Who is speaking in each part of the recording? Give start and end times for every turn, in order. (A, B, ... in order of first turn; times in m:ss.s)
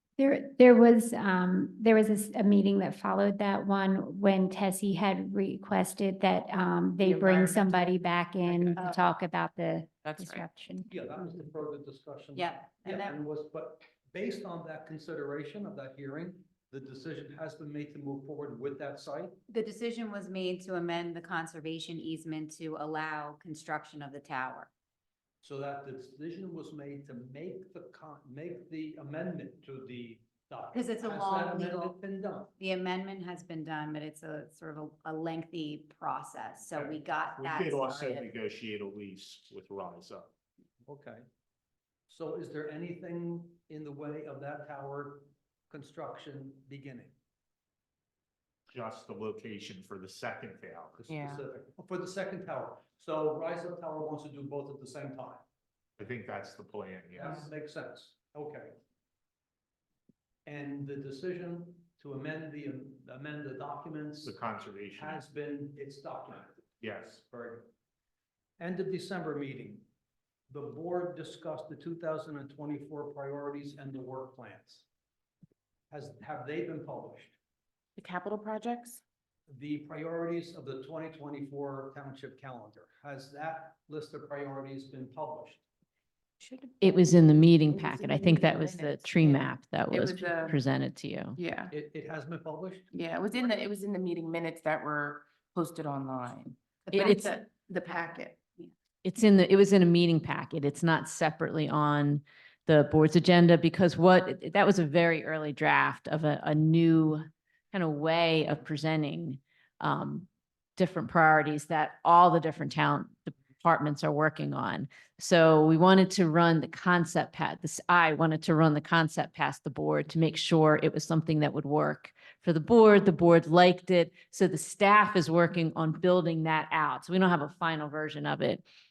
0:00.2-0:10.9 A
0:07.0-0:09.0 B
0:10.0-0:10.4 B
0:10.9-0:19.4 C
0:12.4-0:13.1 D
0:19.5-0:24.7 D
0:25.4-0:32.5 C
0:30.7-0:31.9 D
0:32.6-0:38.2 D
0:36.7-0:40.3 E
0:40.8-0:41.2 C
0:42.1-0:47.1 C
0:48.7-0:51.0 E
0:51.0-0:55.4 C
0:51.1-0:51.4 B
0:56.0-0:57.5 E
0:57.2-0:58.7 C
0:57.2-0:57.5 B
1:00.4-1:04.4 C
1:04.2-1:05.2 E
1:04.9-1:07.7 C
1:06.8-1:07.2 E
1:08.6-1:09.8 C
1:10.5-1:14.8 C
1:15.9-1:17.4 C
1:18.0-1:19.0 B
1:19.5-1:25.6 C
1:26.4-1:30.6 B
1:26.8-1:31.4 F
1:31.4-1:31.7 B
1:31.7-1:33.6 C
1:32.9-1:38.4 B
1:36.9-1:37.3 F
1:39.0-2:08.6 F